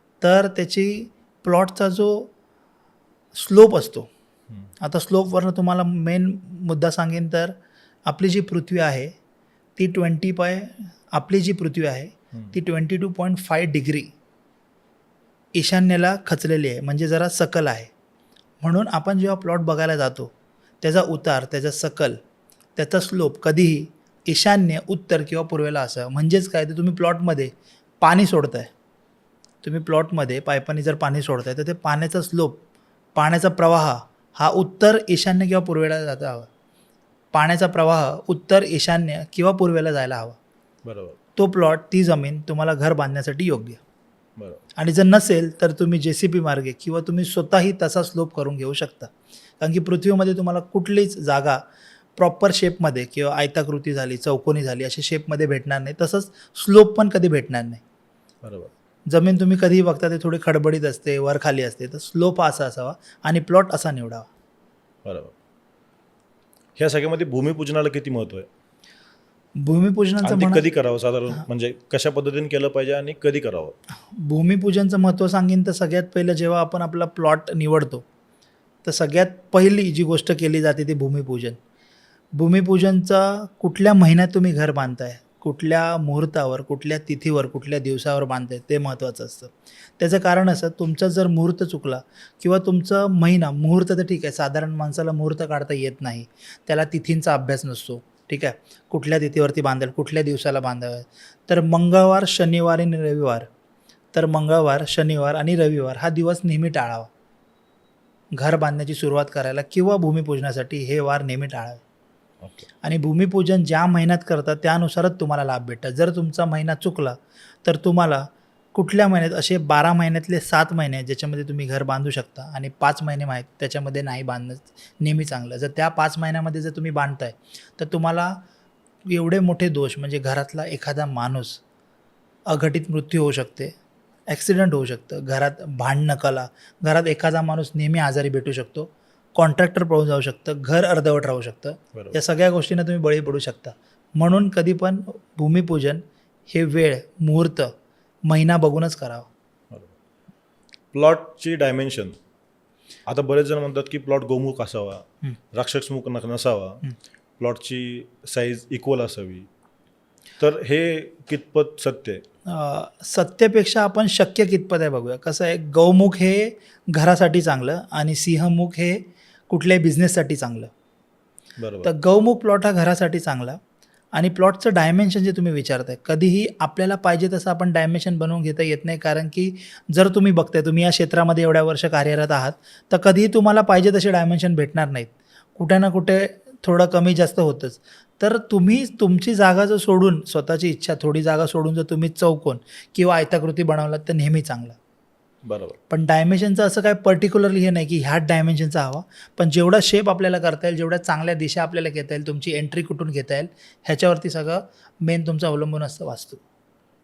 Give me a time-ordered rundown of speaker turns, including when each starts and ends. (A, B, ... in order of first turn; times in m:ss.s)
0:00.2-0:02.3 A
0:03.3-0:04.1 A
0:04.8-0:07.5 A
0:08.1-0:09.1 A
0:09.8-0:14.1 A
0:15.6-0:17.9 A
0:18.6-0:22.2 A
0:22.8-0:28.7 A
0:29.6-0:32.6 A
0:33.2-0:36.5 A
0:37.3-0:40.4 A
0:40.8-0:41.2 B
0:41.4-0:43.8 A
0:44.8-0:51.6 A
0:52.2-0:57.8 A
0:58.4-0:58.7 B
0:59.1-1:04.3 A
1:05.0-1:05.3 B
1:06.8-1:08.5 B
1:09.6-1:10.6 A
1:10.2-1:13.8 B
1:14.1-1:18.0 A
1:18.8-1:21.6 A
1:22.4-1:43.5 A
1:44.1-1:47.1 A
1:48.3-1:51.8 A
1:52.4-1:52.7 B
1:52.8-2:08.4 A
2:09.1-2:11.6 A
2:12.5-2:13.8 A
2:14.3-2:27.7 A
2:28.3-2:29.3 A
2:30.9-2:32.2 B
2:33.1-2:36.8 B
2:37.4-2:39.5 B
2:40.4-2:42.2 B
2:42.5-2:50.7 A
2:51.6-2:51.9 B
2:51.8-2:53.6 A
2:54.1-3:14.8 A
3:15.4-3:15.8 B
3:15.9-3:26.4 A